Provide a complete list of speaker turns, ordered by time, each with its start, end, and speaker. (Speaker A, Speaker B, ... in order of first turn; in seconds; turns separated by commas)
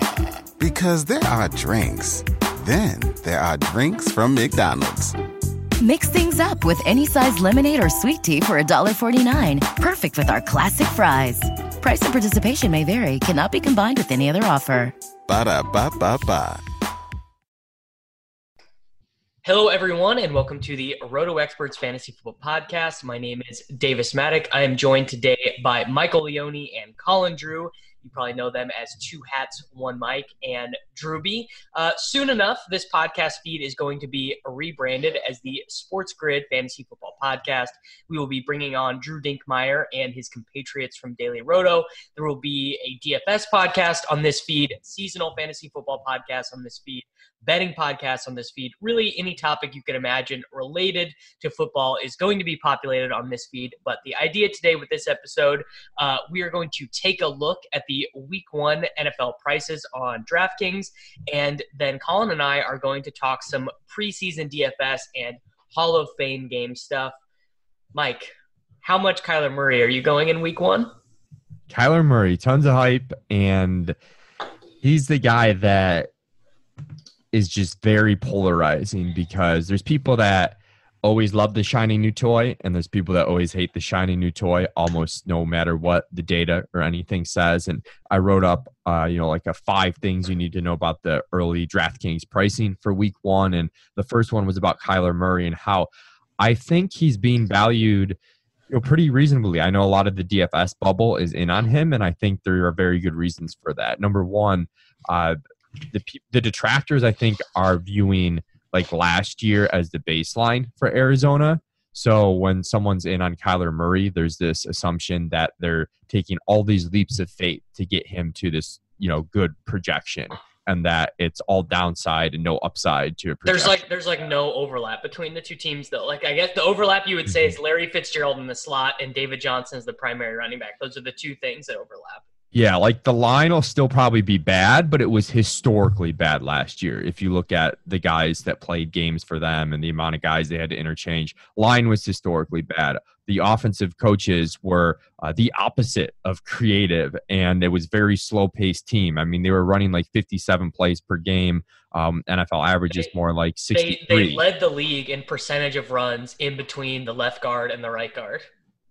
Speaker A: 0.6-5.2, Speaker B: 5.8-14.9, Speaker A: 15.3-16.6, Speaker C: 19.4-67.2, Speaker C: 67.9-70.9, Speaker D: 71.7-74.0, Speaker D: 74.8-76.1, Speaker D: 77.3-95.9, Speaker D: 96.4-98.2, Speaker D: 98.7-105.4, Speaker D: 105.9-123.8, Speaker C: 123.5-132.2, Speaker D: 127.3-127.5, Speaker D: 132.5-154.4, Speaker C: 153.7-158.5